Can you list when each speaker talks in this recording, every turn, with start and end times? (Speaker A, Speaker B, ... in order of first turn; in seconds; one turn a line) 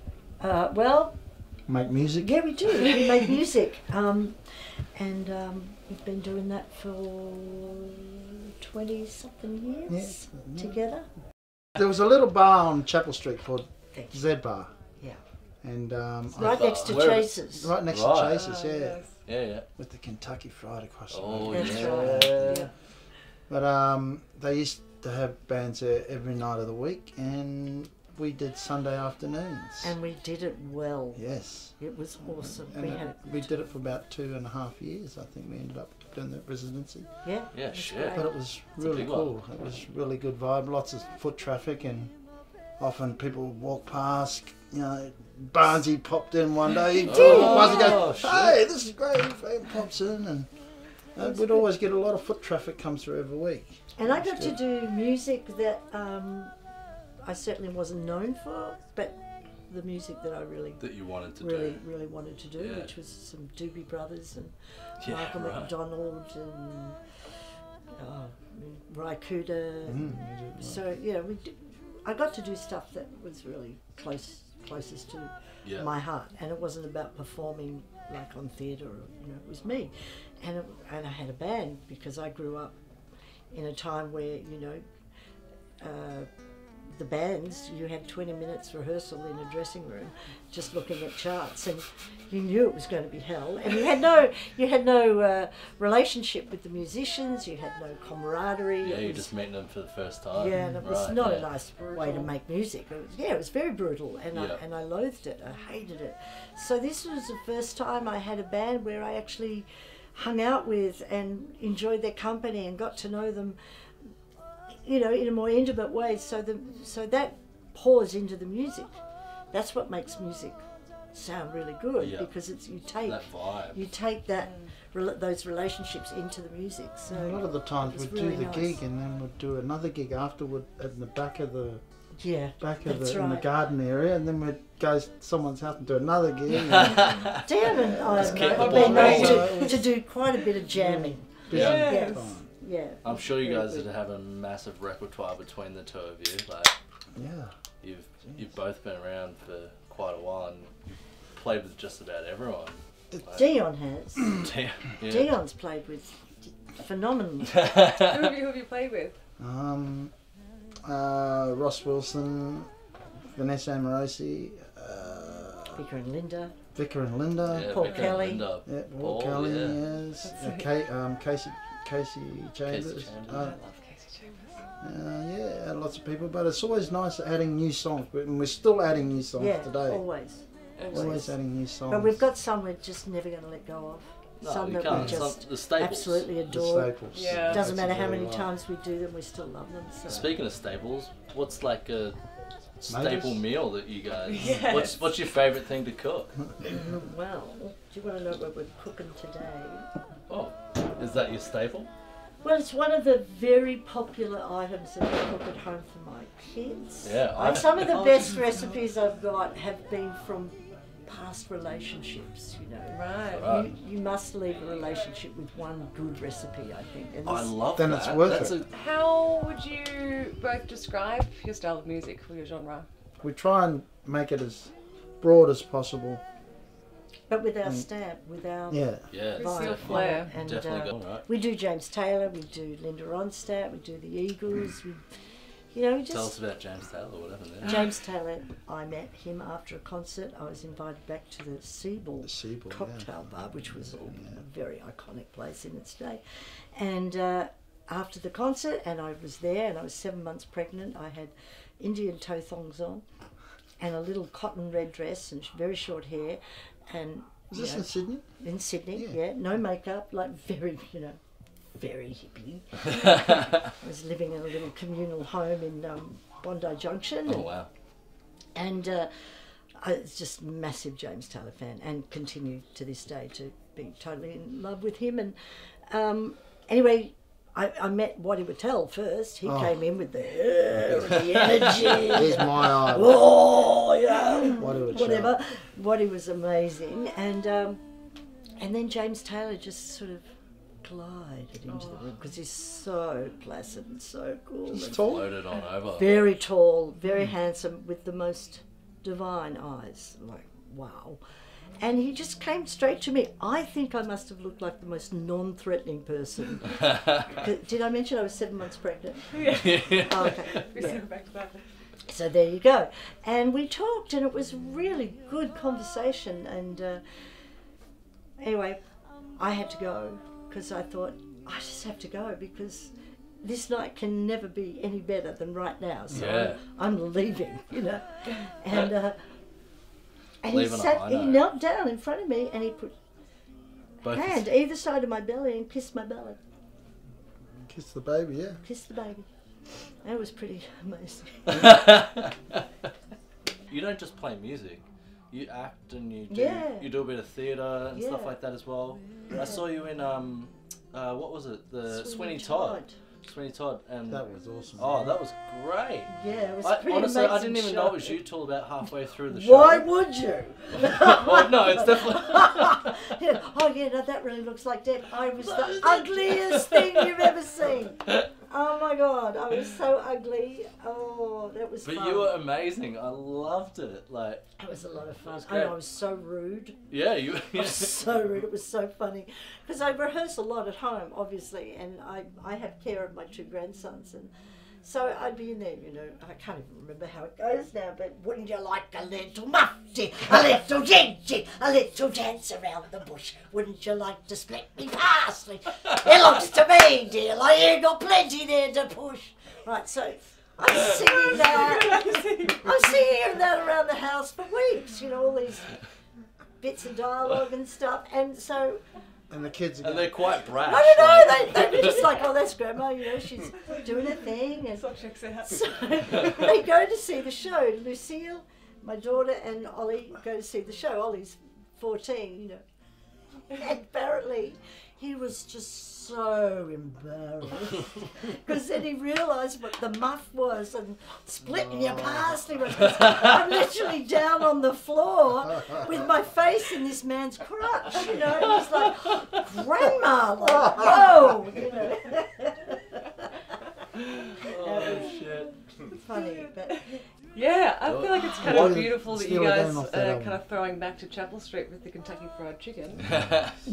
Speaker A: 0.4-1.2
Speaker B: 1.7-2.4
Speaker A: 2.2-11.1
Speaker B: 9.9-10.7
Speaker B: 11.8-14.7
Speaker A: 13.9-14.2
Speaker B: 15.6-19.1
Speaker A: 16.3-17.8
Speaker C: 16.4-17.3
Speaker C: 17.9-18.4
Speaker D: 18.3-19.2
Speaker C: 19.2-19.7
Speaker B: 19.8-22.7
Speaker C: 21.1-22.7
Speaker A: 21.5-22.3
Speaker D: 21.8-22.7
Speaker B: 23.5-29.9
Speaker A: 29.8-33.5
Speaker B: 31.2-37.1
Speaker A: 37.2-38.4
Speaker C: 37.5-39.3
Speaker B: 38.1-42.1
Speaker B: 42.8-50.5
Speaker A: 47.0-48.2
Speaker C: 47.0-48.6
Speaker B: 51.1-54.5
Speaker A: 51.2-51.6
Speaker A: 54.0-56.5
Speaker A: 57.2-67.1
Speaker C: 60.8-61.8
Speaker C: 62.6-62.9
Speaker C: 65.0-65.7
Speaker A: 68.0-82.8
Speaker B: 69.9-70.8
Speaker A: 83.5-84.8
Speaker A: 85.8-86.3
Speaker A: 86.8-99.3
Speaker C: 98.8-101.5
Speaker A: 100.3-113.6
Speaker B: 100.5-100.8
Speaker D: 102.0-102.3
Speaker C: 104.3-104.6
Speaker A: 114.7-119.0
Speaker A: 119.5-128.8
Speaker C: 122.0-122.3
Speaker C: 123.0-123.8
Speaker B: 127.1-131.8
Speaker A: 132.2-133.5
Speaker B: 132.6-137.2
Speaker C: 136.7-137.4
Speaker A: 137.4-143.9
Speaker B: 137.8-139.8
Speaker C: 138.2-139.6
Speaker D: 138.4-139.8
Speaker B: 140.7-142.5
Speaker C: 141.5-141.9
Speaker D: 141.5-142.3
Speaker C: 143.0-146.7
Speaker B: 147.2-147.5
Speaker C: 147.8-150.7
Speaker C: 151.4-153.5
Speaker A: 153.3-154.5
Speaker C: 154.4-155.4
Speaker A: 155.0-157.7
Speaker C: 157.6-158.1
Speaker D: 158.0-159.2
Speaker B: 159.4-160.1
Speaker B: 160.8-162.7
Speaker B: 163.3-165.8
Speaker A: 165.7-166.5
Speaker B: 166.8-167.8
Speaker C: 167.4-169.8
Speaker A: 167.7-168.5
Speaker D: 167.8-168.2
Speaker B: 168.7-173.6
Speaker D: 170.2-170.7
Speaker C: 172.7-173.5
Speaker D: 173.3-174.6
Speaker B: 174.8-180.1
Speaker A: 179.4-181.3
Speaker B: 180.9-182.2
Speaker D: 180.9-181.2
Speaker A: 181.9-190.3
Speaker C: 184.4-186.3
Speaker B: 184.9-185.3
Speaker B: 186.5-188.5
Speaker D: 187.1-187.6
Speaker C: 190.1-192.2
Speaker C: 192.8-196.4
Speaker B: 192.9-193.4
Speaker D: 194.3-195.0
Speaker A: 196.7-199.9
Speaker C: 200.3-201.9
Speaker A: 202.4-217.7
Speaker C: 207.0-208.3
Speaker D: 212.9-213.5
Speaker C: 213.4-213.7
Speaker C: 217.2-218.7
Speaker B: 217.8-218.6
Speaker D: 218.7-222.9
Speaker B: 223.2-226.2
Speaker A: 227.3-235.0
Speaker B: 228.7-229.1
Speaker C: 229.1-231.3
Speaker D: 229.4-230.3
Speaker A: 235.7-236.4
Speaker C: 236.1-237.8
Speaker A: 237.6-253.0
Speaker B: 242.2-243.1
Speaker B: 244.0-244.4
Speaker A: 253.8-261.2
Speaker B: 257.5-258.4
Speaker A: 261.8-267.5
Speaker C: 267.3-267.7
Speaker A: 268.6-287.8
Speaker B: 279.4-279.7
Speaker C: 280.9-282.0
Speaker B: 281.9-283.2
Speaker B: 284.6-285.4
Speaker A: 288.6-290.3
Speaker A: 290.8-295.2
Speaker B: 294.7-295.3
Speaker C: 294.8-296.2
Speaker A: 295.9-301.2
Speaker A: 301.8-311.1
Speaker D: 309.3-311.7
Speaker C: 309.4-310.6
Speaker A: 312.1-317.0
Speaker A: 318.4-318.8
Speaker A: 319.4-329.2
Speaker C: 326.1-326.6
Speaker A: 330.4-332.9
Speaker C: 330.5-331.4
Speaker C: 334.0-334.5
Speaker A: 334.1-336.4
Speaker B: 337.6-338.6
Speaker A: 338.6-339.3
Speaker A: 340.0-341.9
Speaker C: 341.5-342.3
Speaker C: 343.7-354.3
Speaker A: 346.3-346.9
Speaker A: 347.9-348.4
Speaker A: 349.3-349.6
Speaker A: 351.9-353.0
Speaker B: 354.1-355.2
Speaker C: 354.8-359.9
Speaker A: 356.1-358.2
Speaker A: 359.3-372.4
Speaker C: 360.8-362.8
Speaker C: 365.4-367.2
Speaker C: 371.8-374.4
Speaker A: 374.6-376.8
Speaker C: 375.3-375.8
Speaker C: 376.9-378.0
Speaker A: 377.5-384.3
Speaker A: 384.8-405.8
Speaker A: 406.6-408.8
Speaker B: 409.3-410.2
Speaker C: 409.8-412.1
Speaker A: 410.5-414.9
Speaker D: 414.7-416.5
Speaker A: 415.4-422.6
Speaker A: 423.5-443.0
Speaker C: 444.3-445.5
Speaker A: 444.4-445.2
Speaker A: 445.9-447.0
Speaker D: 446.1-446.8
Speaker D: 447.4-453.2
Speaker C: 447.9-448.8
Speaker B: 448.4-450.4
Speaker C: 453.1-453.5